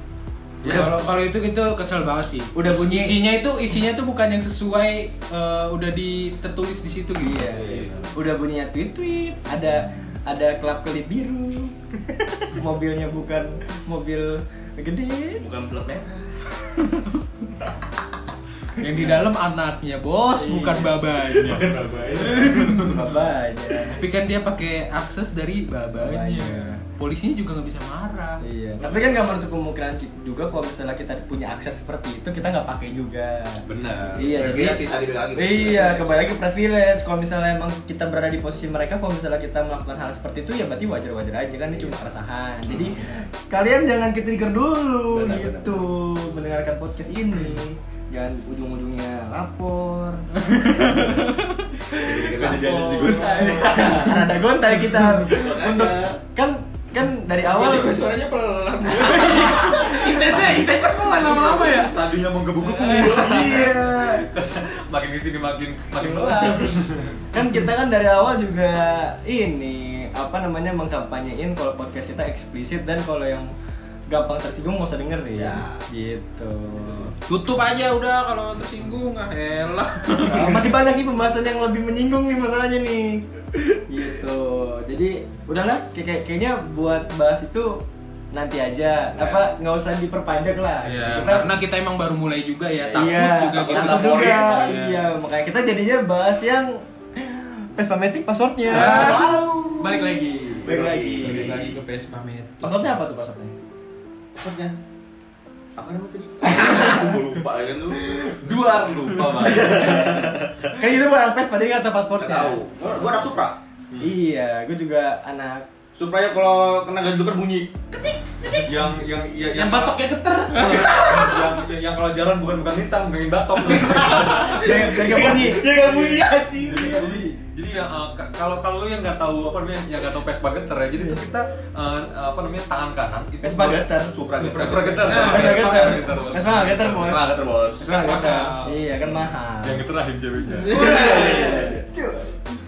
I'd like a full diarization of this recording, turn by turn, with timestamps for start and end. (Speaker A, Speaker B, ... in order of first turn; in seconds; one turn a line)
Speaker A: 0.6-0.9
Speaker B: 0.6-7.9
Speaker A: 2.5-3.2
Speaker A: 7.2-15.4
Speaker C: 7.5-8.1
Speaker C: 15.4-16.4
Speaker B: 18.8-22.9
Speaker A: 20.4-21.0
Speaker C: 21.3-23.0
Speaker D: 22.4-22.9
Speaker A: 22.8-24.0
Speaker B: 23.9-28.4
Speaker A: 26.0-26.8
Speaker A: 28.4-33.6
Speaker D: 33.7-34.6
Speaker C: 34.0-36.3
Speaker A: 34.1-51.3
Speaker C: 42.7-43.1
Speaker C: 45.1-45.8
Speaker B: 50.4-51.7
Speaker C: 51.9-54.2
Speaker D: 52.2-54.1
Speaker A: 52.4-58.0
Speaker C: 55.2-56.2
Speaker B: 57.7-59.9
Speaker E: 57.8-58.2
Speaker E: 58.8-62.0
Speaker D: 61.2-67.2
Speaker A: 62.8-64.3
Speaker C: 62.9-63.6
Speaker A: 66.1-66.5
Speaker A: 67.3-73.5
Speaker A: 74.1-77.1
Speaker C: 75.3-75.8
Speaker B: 77.3-80.7
Speaker A: 80.2-91.5
Speaker C: 89.2-89.5
Speaker B: 90.8-95.1
Speaker C: 92.8-94.8
Speaker A: 92.9-99.3
Speaker C: 98.7-101.8
Speaker B: 98.7-100.7
Speaker E: 99.8-100.2
Speaker A: 100.6-101.6
Speaker B: 101.2-102.7
Speaker A: 102.6-103.5
Speaker C: 104.4-104.7
Speaker C: 105.8-110.8
Speaker D: 108.4-110.1
Speaker A: 110.8-112.6
Speaker C: 112.2-113.6
Speaker A: 114.0-115.6
Speaker C: 116.0-118.8
Speaker D: 118.5-137.3
Speaker E: 119.5-121.4
Speaker C: 120.7-121.2
Speaker C: 123.7-127.2
Speaker A: 124.5-125.8
Speaker A: 133.4-134.1
Speaker C: 134.1-135.5
Speaker B: 134.4-136.3
Speaker E: 135.1-135.7
Speaker A: 135.2-139.9
Speaker C: 136.8-137.9
Speaker B: 137.8-138.8
Speaker D: 139.6-141.6
Speaker C: 140.7-141.8
Speaker A: 140.7-142.4
Speaker B: 140.8-141.6